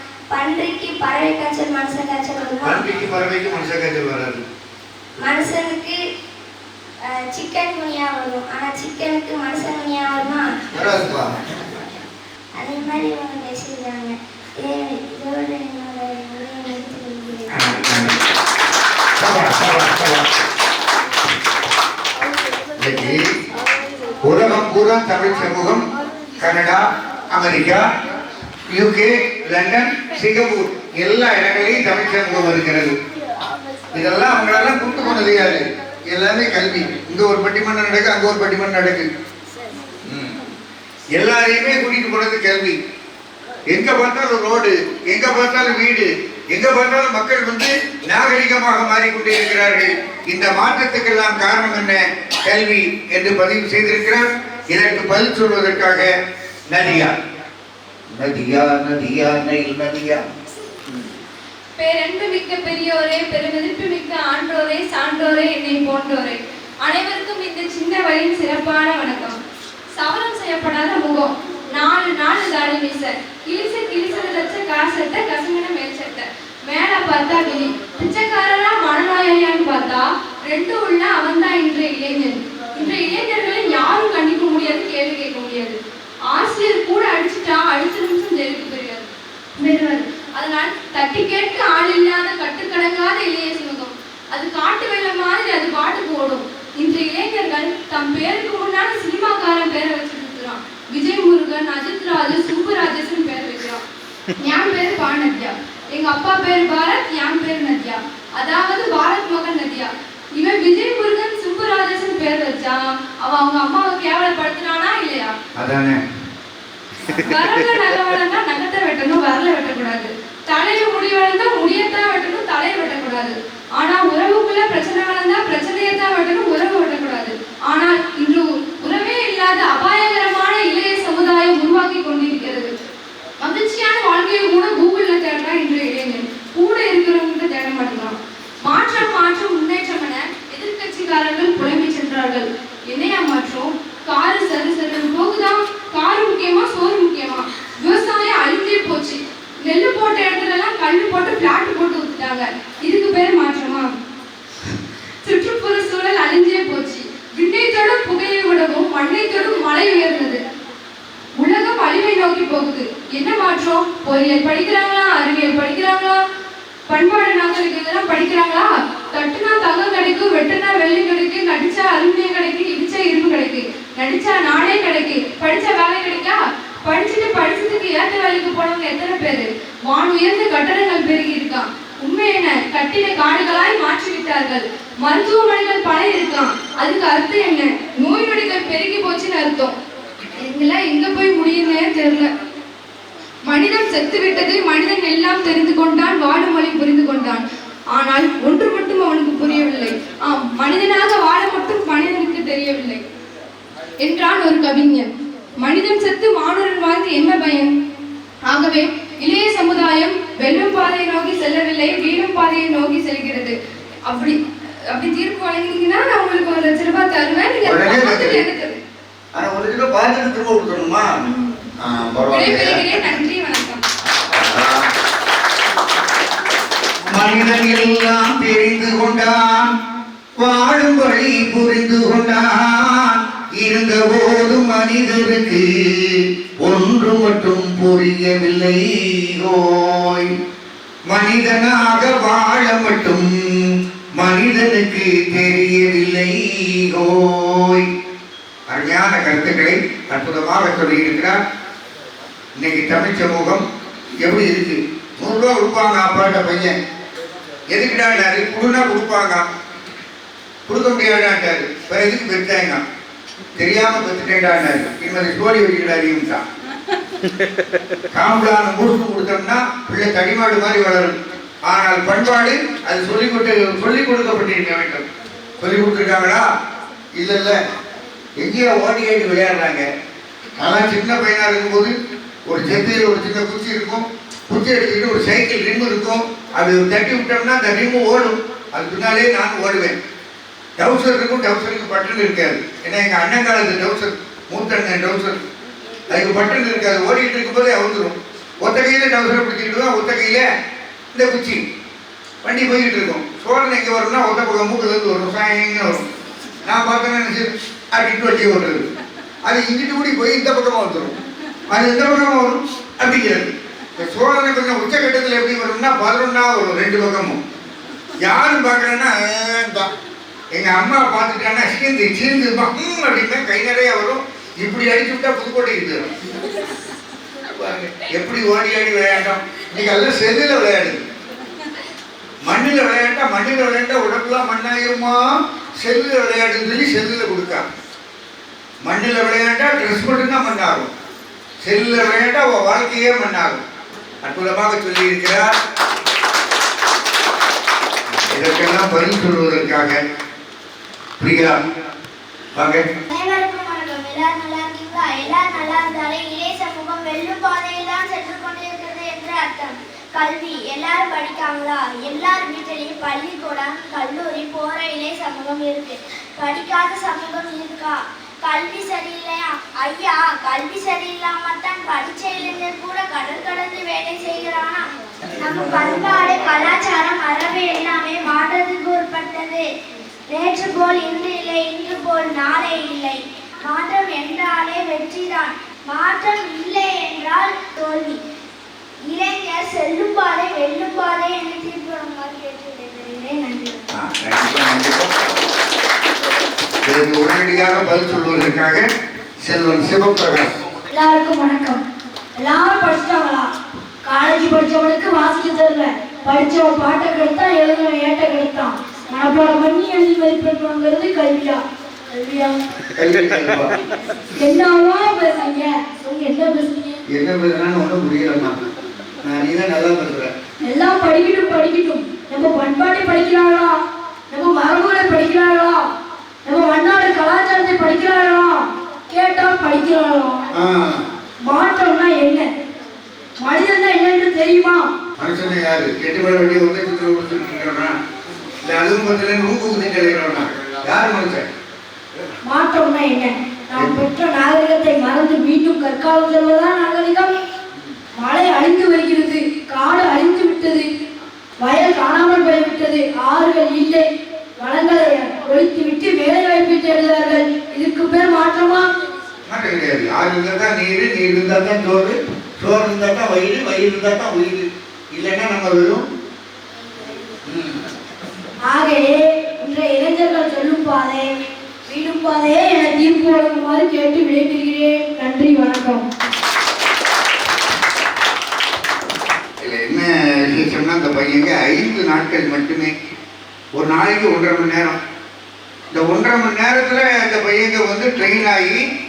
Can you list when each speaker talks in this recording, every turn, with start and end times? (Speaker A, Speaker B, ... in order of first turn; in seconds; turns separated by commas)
Speaker A: 0.3-2.8, Speaker B: 2.6-4.4, Speaker A: 5.2-6.0, Speaker A: 7.0-10.5, Speaker B: 10.7-11.6, Speaker A: 12.6-17.6, Speaker B: 17.5-18.3, Speaker B: 19.2-20.4, Speaker B: 22.8-23.3, Speaker B: 24.2-25.8, Speaker B: 26.4-27.9, Speaker B: 28.7-33.0, Speaker B: 33.9-39.1, Speaker B: 40.0-40.4, Speaker B: 41.1-42.8, Speaker B: 43.7-56.1, Speaker B: 56.7-57.2, Speaker B: 58.1-60.2, Speaker C: 61.8-69.4, Speaker C: 69.9-85.8, Speaker C: 86.3-103.8, Speaker C: 104.4-115.3, Speaker B: 115.6-116.0, Speaker C: 117.2-132.7, Speaker C: 133.4-153.9, Speaker C: 154.6-160.4, Speaker C: 161.4-166.2, Speaker C: 166.9-189.7, Speaker C: 190.4-192.3, Speaker C: 193.4-203.0, Speaker C: 204.0-205.1, Speaker C: 205.6-207.7, Speaker C: 208.4-213.5, Speaker C: 214.1-218.8, Speaker B: 217.6-218.4, Speaker B: 219.3-221.3, Speaker B: 221.8-223.1, Speaker C: 222.3-223.8, Speaker B: 224.1-224.9, Speaker B: 227.1-229.7, Speaker B: 230.4-240.3, Speaker B: 241.1-247.9, Speaker B: 248.7-251.4, Speaker B: 252.6-253.7, Speaker B: 254.2-256.7, Speaker B: 257.7-259.4, Speaker B: 260.7-262.8, Speaker B: 263.6-266.4, Speaker B: 268.1-275.1, Speaker B: 275.6-276.4, Speaker B: 277.1-277.6, Speaker B: 278.4-279.9, Speaker B: 280.6-281.9, Speaker B: 282.4-290.0, Speaker B: 290.8-295.4, Speaker B: 296.1-300.4, Speaker B: 301.1-301.6, Speaker B: 302.4-306.0, Speaker B: 306.6-308.9, Speaker B: 309.4-311.1, Speaker B: 311.7-317.4, Speaker B: 318.2-319.9, Speaker B: 320.5-326.2, Speaker B: 327.5-331.0, Speaker B: 332.4-335.2, Speaker B: 335.8-337.6, Speaker B: 338.8-340.9, Speaker B: 341.6-343.6, Speaker B: 344.2-345.5, Speaker B: 348.1-350.0, Speaker B: 351.2-351.6, Speaker B: 352.5-352.9, Speaker A: 353.1-379.6, Speaker A: 380.3-388.2, Speaker A: 389.1-393.9, Speaker B: 393.9-395.3, Speaker B: 396.8-398.9, Speaker B: 399.4-400.5, Speaker D: 400.9-401.8, Speaker D: 402.4-403.5, Speaker D: 404.0-411.6, Speaker D: 412.1-412.6, Speaker B: 412.9-413.7, Speaker D: 414.4-417.0, Speaker B: 417.1-418.6, Speaker B: 419.2-420.3, Speaker D: 420.6-423.7, Speaker D: 424.3-425.8, Speaker D: 426.4-430.4, Speaker B: 430.5-431.0, Speaker D: 431.4-432.5, Speaker D: 433.4-434.9, Speaker B: 435.2-437.9, Speaker B: 438.6-441.5, Speaker D: 442.4-447.3, Speaker B: 443.8-444.0, Speaker D: 448.2-450.9, Speaker D: 451.6-454.1, Speaker D: 454.6-458.9, Speaker B: 459.5-466.0, Speaker B: 467.4-467.8, Speaker D: 468.7-471.3, Speaker D: 471.9-476.0, Speaker B: 479.6-482.9, Speaker B: 483.7-485.0, Speaker B: 485.9-488.8